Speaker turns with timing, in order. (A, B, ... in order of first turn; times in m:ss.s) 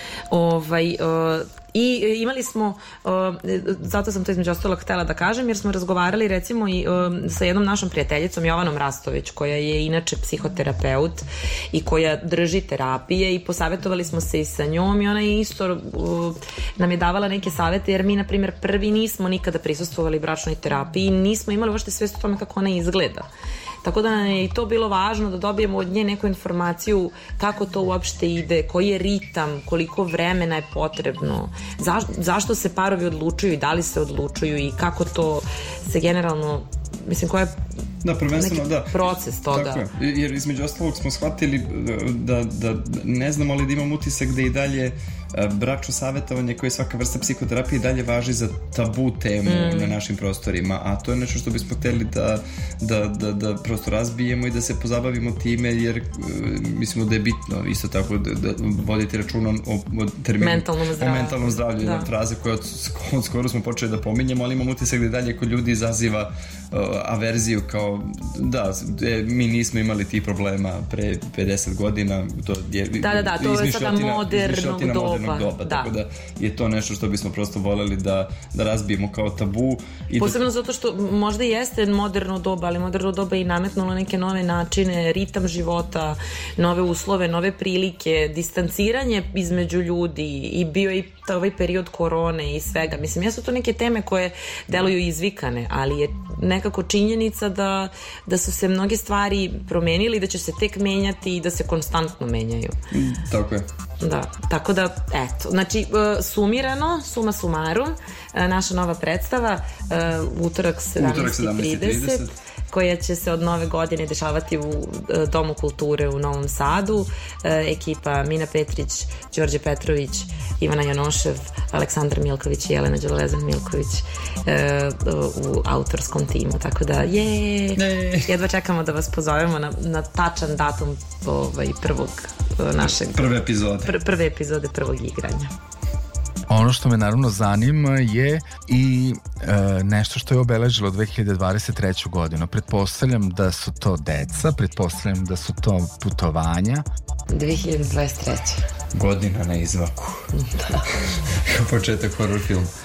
0:00.3-0:23.3 A
0:23.8-0:37.6 A
0:38.0-1:20.5 B
0:38.3-0:39.8 A
0:49.4-0:50.0 A
1:00.4-1:02.1 A
1:13.0-1:15.9 A
1:20.2-1:42.8 A
1:42.9-1:43.6 B
1:44.0-2:15.5 A
1:51.0-1:52.4 B
2:07.8-2:08.3 B
2:12.8-2:14.0 B
2:16.5-2:26.8 C
2:27.3-2:28.6 A
2:28.9-2:30.3 B
2:30.3-2:30.9 A
2:31.2-2:32.7 B